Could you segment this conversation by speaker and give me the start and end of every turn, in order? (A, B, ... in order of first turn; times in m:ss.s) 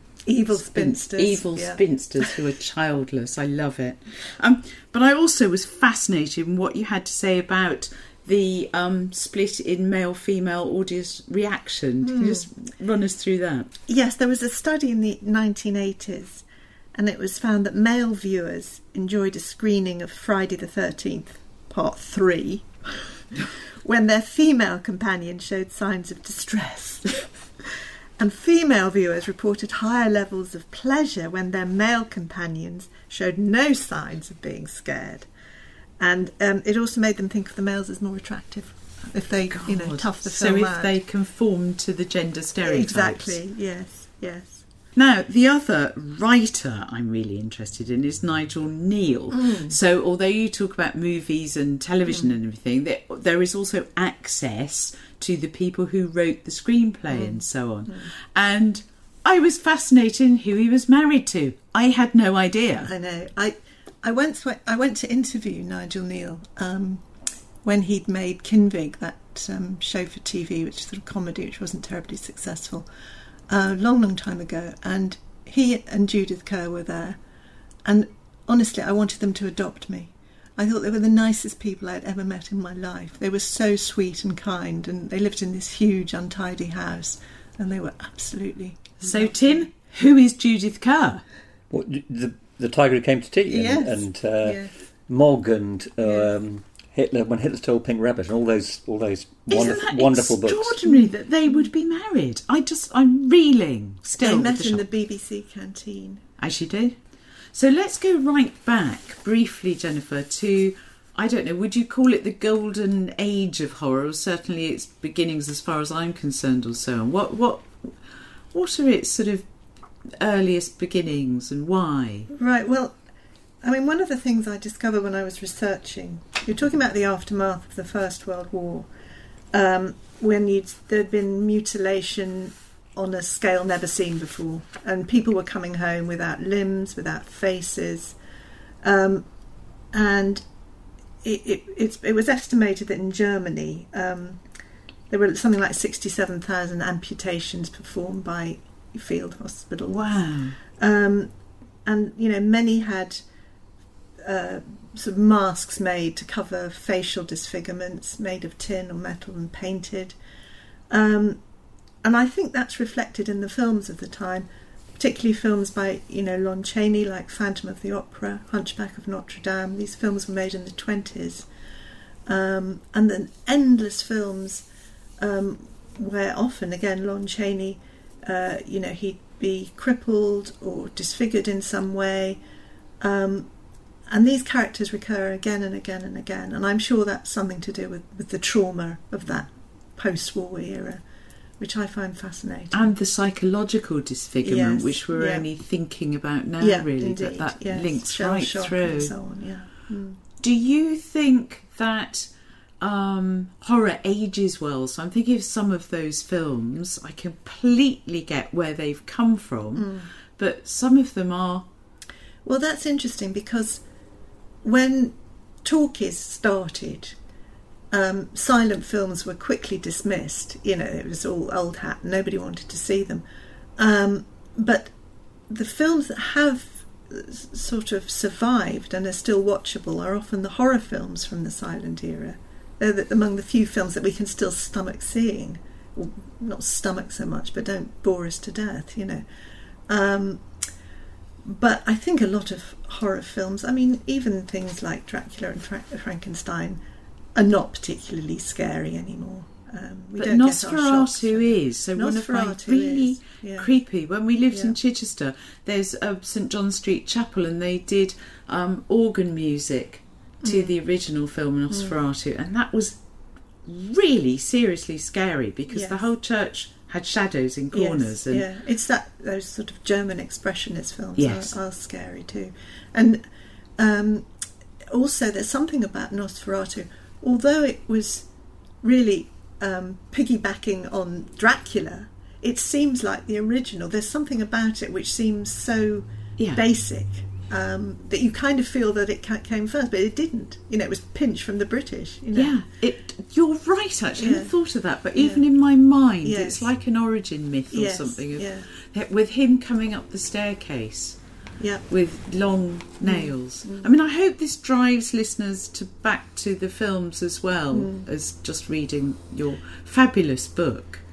0:00.2-0:02.4 A
0:00.6-0:13.7 B
0:12.0-0:12.5 A
0:13.9-0:23.1 A
0:23.8-0:35.3 A
0:36.0-0:41.0 A
0:39.5-0:43.4 B
0:42.6-0:44.6 A
0:45.0-1:02.9 B
0:49.3-0:49.8 A
0:52.1-0:52.3 A
0:57.1-0:58.1 A
1:02.8-1:07.1 A
1:07.6-1:12.9 A
1:13.5-1:17.2 A
1:17.8-1:29.7 A
1:29.0-1:31.2 B
1:31.7-1:40.8 C
1:33.5-1:34.7 A
1:36.0-1:36.3 A
1:39.5-1:44.8 B
1:39.5-1:39.8 A
1:40.8-1:41.6 A
1:44.1-1:46.3 A
1:46.4-1:47.0 B
1:47.5-1:57.9 B
1:58.5-1:59.4 B
2:00.2-2:02.3 B
2:02.3-2:03.0 A
2:03.6-2:08.9 A
2:09.5-2:18.2 A
2:18.8-2:19.3 A
2:19.9-2:20.4 A
2:21.2-2:24.4 A
2:25.1-2:31.3 A
2:29.9-2:30.6 B
2:31.8-2:33.2 A
2:34.2-2:40.2 A
2:40.9-2:41.4 A
2:42.0-2:51.5 A
2:52.2-2:54.7 A
2:55.2-3:02.4 A
3:03.0-3:03.5 A
3:04.1-3:11.0 A
3:11.6-3:12.9 A
3:12.7-3:19.1 B
3:14.4-3:15.5 A
3:16.6-3:20.2 A
3:20.4-3:22.3 B
3:22.8-3:31.7 B
3:29.7-3:30.1 A
3:32.4-3:33.8 A
3:34.6-3:37.2 A
3:37.9-3:43.2 A
3:43.8-3:44.9 A
3:45.5-3:59.2 A
3:59.9-4:00.5 A
4:01.4-4:06.8 A
4:07.4-4:13.7 A
4:10.2-4:23.0 B
4:14.5-4:14.8 A
4:20.4-4:20.8 A
4:21.7-4:21.9 A
4:23.6-4:28.5 B
4:25.7-4:26.0 A
4:27.7-4:33.2 A
4:31.2-4:31.5 B
4:33.8-4:34.3 A
4:34.9-4:38.3 A
4:38.8-4:52.6 A
4:46.4-4:46.6 B
4:52.3-5:01.2 B
4:54.2-4:54.5 A
4:55.1-4:55.5 A
4:56.2-4:56.7 A
4:57.7-4:58.7 A
5:01.6-5:01.9 A
5:01.9-5:11.0 B
5:03.0-5:03.9 A
5:07.7-5:08.1 A